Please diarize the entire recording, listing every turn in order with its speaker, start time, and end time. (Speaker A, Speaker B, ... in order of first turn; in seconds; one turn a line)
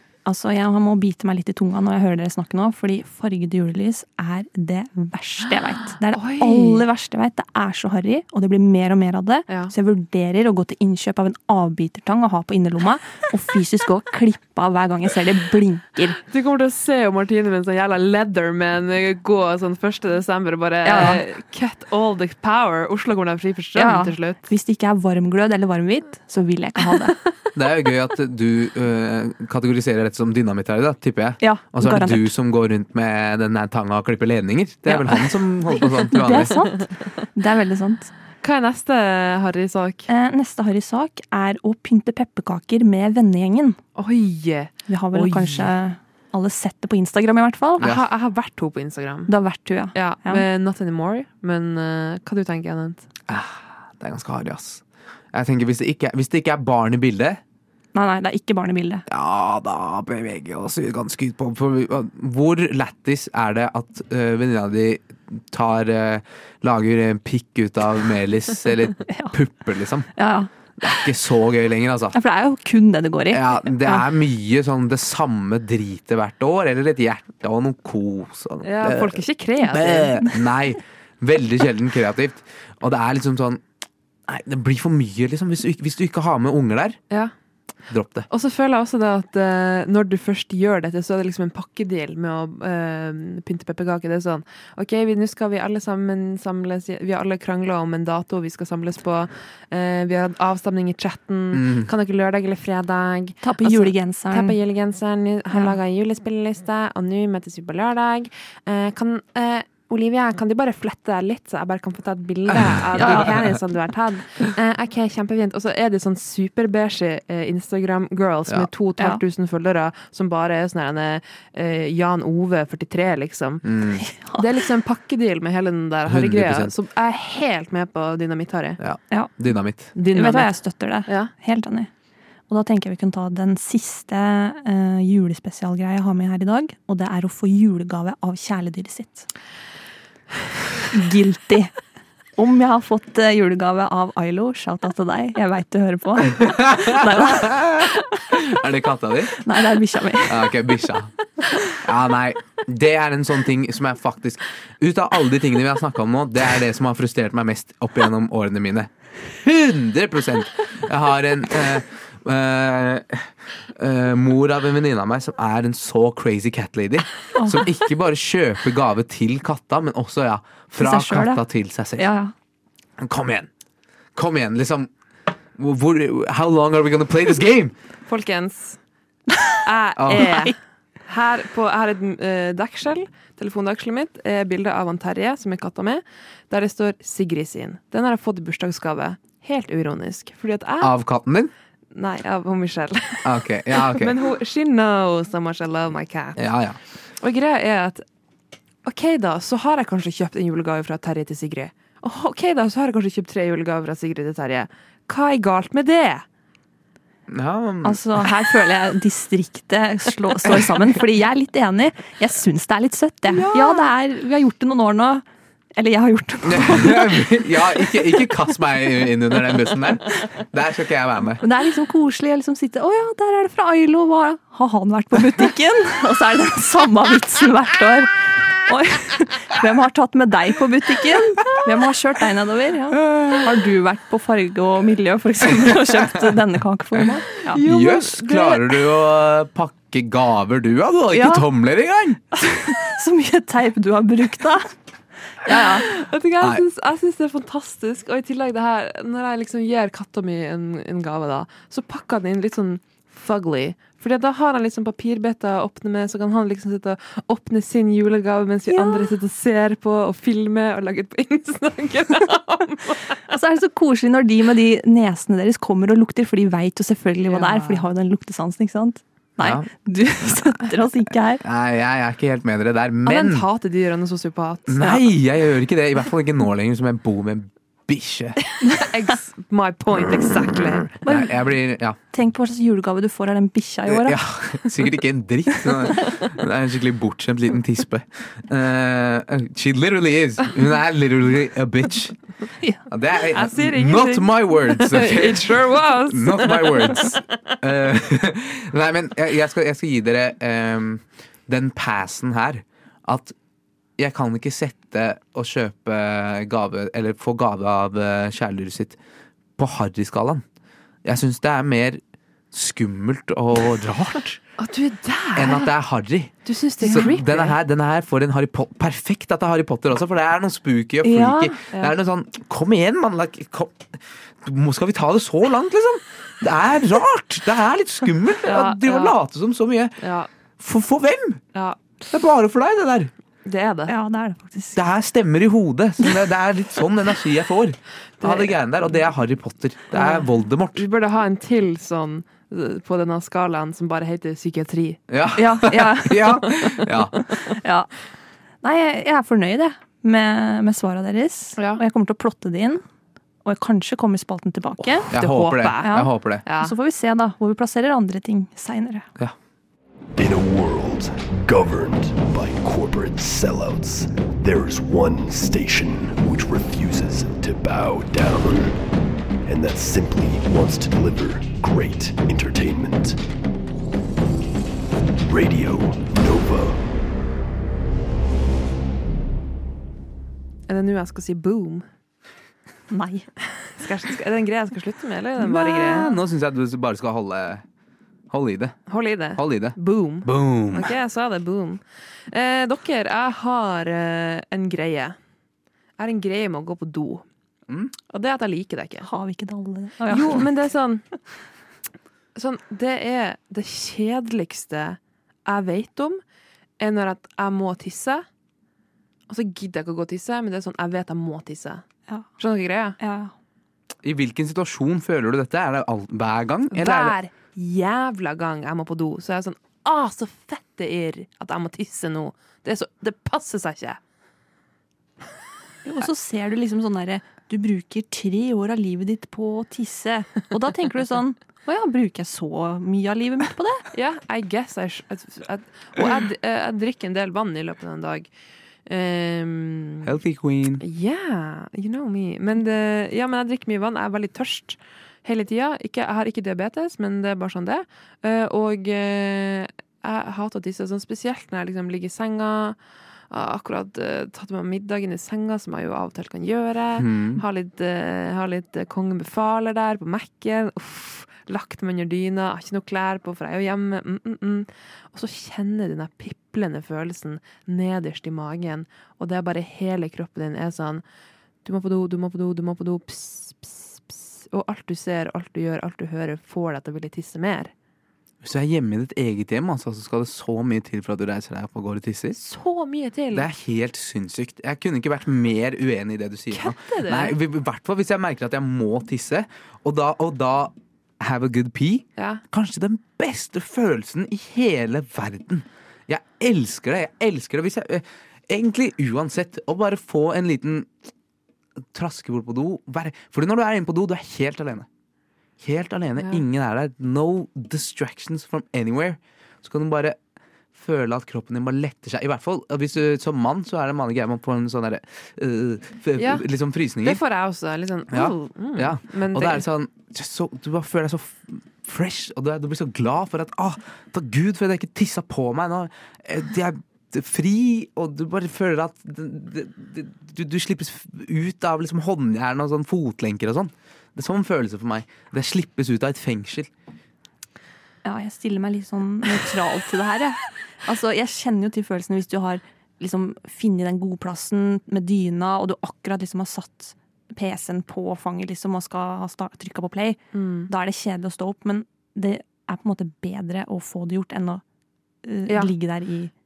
Speaker A: 0.2-16.2
Speaker B: 6.1-6.8
Speaker B: 16.2-24.5
Speaker A: 20.8-21.2
Speaker A: 23.8-27.1
Speaker C: 27.5-36.6
Speaker A: 31.4-32.3
Speaker A: 34.9-38.1
Speaker B: 38.4-40.1
Speaker A: 40.1-43.8
Speaker B: 44.0-45.7
Speaker A: 44.9-47.9
Speaker B: 47.8-49.3
Speaker A: 49.3-50.4
Speaker B: 49.9-53.0
Speaker C: 53.3-57.4
Speaker A: 57.9-59.0
Speaker C: 59.1-70.1
Speaker A: 69.1-69.3
Speaker A: 70.1-70.5
Speaker C: 70.8-72.2
Speaker A: 72.1-74.0
Speaker C: 73.3-83.6
Speaker B: 78.6-80.2
Speaker C: 84.3-87.0
Speaker C: 87.9-88.3
Speaker B: 88.3-123.7
Speaker C: 101.5-101.9
Speaker A: 103.4-104.5
Speaker C: 112.5-113.3
Speaker A: 113.0-113.3
Speaker C: 123.6-124.0
Speaker A: 124.0-124.4
Speaker B: 124.4-128.8
Speaker C: 126.0-126.7
Speaker C: 128.8-129.9
Speaker B: 129.9-131.3
Speaker A: 130.1-131.9
Speaker A: 132.5-139.3
Speaker A: 140.9-141.7
Speaker A: 142.4-147.9
Speaker C: 146.2-149.4
Speaker A: 149.4-150.5
Speaker C: 150.2-151.1
Speaker C: 151.7-172.1
Speaker A: 167.3-167.6
Speaker A: 170.8-171.4
Speaker A: 172.0-172.3
Speaker C: 173.0-173.5
Speaker C: 174.1-174.9
Speaker C: 175.6-177.7
Speaker B: 178.1-178.8
Speaker B: 179.6-180.6
Speaker C: 180.0-180.3
Speaker A: 180.1-180.5
Speaker B: 181.1-190.9
Speaker C: 190.8-191.5
Speaker B: 191.9-196.5
Speaker C: 193.2-194.1
Speaker C: 196.4-196.8
Speaker B: 197.2-198.0
Speaker B: 198.8-206.2
Speaker C: 207.3-208.0
Speaker A: 207.8-215.2
Speaker B: 213.3-213.9
Speaker A: 215.8-217.4
Speaker C: 216.4-221.4
Speaker A: 221.4-237.6
Speaker C: 233.0-233.3
Speaker B: 237.5-238.8
Speaker C: 237.6-242.2
Speaker A: 241.1-241.4
Speaker A: 242.5-244.7
Speaker A: 245.4-245.8
Speaker B: 245.5-263.2
Speaker A: 258.7-259.1
Speaker A: 263.3-271.4
Speaker B: 267.2-267.8
Speaker C: 269.4-269.7
Speaker C: 271.4-273.4
Speaker B: 273.0-275.0
Speaker C: 274.7-278.4
Speaker B: 278.6-280.9
Speaker C: 281.0-282.0
Speaker A: 281.0-281.3
Speaker A: 282.1-284.2
Speaker C: 283.9-292.2
Speaker C: 292.9-303.3
Speaker B: 293.3-297.3
Speaker C: 304.0-309.0
Speaker C: 309.6-310.4
Speaker C: 311.0-312.0
Speaker C: 312.5-314.4
Speaker B: 314.6-315.7
Speaker C: 315.4-330.0
Speaker B: 316.4-317.6
Speaker A: 321.0-321.6
Speaker B: 328.4-329.2
Speaker B: 330.0-330.3
Speaker C: 330.6-331.4
Speaker B: 331.5-331.8
Speaker C: 332.1-333.1
Speaker B: 333.4-333.9
Speaker A: 333.9-334.8
Speaker C: 334.7-340.9
Speaker B: 338.2-338.6
Speaker B: 339.9-345.0
Speaker C: 345.1-347.2
Speaker A: 345.4-346.7
Speaker A: 347.3-347.9
Speaker A: 348.6-352.8
Speaker B: 351.6-351.8
Speaker A: 353.4-355.1
Speaker B: 354.9-356.7
Speaker C: 355.1-356.4
Speaker A: 355.8-359.1
Speaker D: 360.1-368.8
Speaker D: 369.4-373.2
Speaker D: 375.2-376.8
Speaker B: 380.7-381.9
Speaker A: 382.9-383.3
Speaker B: 383.6-386.1
Speaker A: 385.4-386.1
Speaker C: 385.5-387.6
Speaker C: 388.3-388.8
Speaker B: 388.9-395.1
Speaker C: 389.3-390.9
Speaker B: 396.0-397.2
Speaker B: 398.1-399.1
Speaker A: 399.0-400.4
Speaker B: 400.1-401.0
Speaker B: 402.3-406.2
Speaker B: 406.8-408.2
Speaker B: 409.3-411.8
Speaker B: 412.4-413.0
Speaker A: 413.0-413.3
Speaker C: 414.0-417.1
Speaker B: 416.7-424.0
Speaker A: 425.8-433.8
Speaker B: 433.9-438.3
Speaker B: 438.9-440.1
Speaker C: 440.0-440.8
Speaker B: 440.8-452.8
Speaker B: 453.3-471.0
Speaker C: 457.0-457.4
Speaker B: 471.6-477.7
Speaker C: 478.4-482.4
Speaker B: 482.3-483.5
Speaker C: 483.3-500.9
Speaker B: 486.5-487.4
Speaker B: 492.2-492.4
Speaker C: 501.9-504.9
Speaker C: 505.6-510.2
Speaker C: 510.7-517.2
Speaker B: 516.2-516.5
Speaker B: 517.0-519.6
Speaker C: 518.1-536.7
Speaker A: 538.0-554.6
Speaker B: 550.3-550.7
Speaker A: 555.2-556.3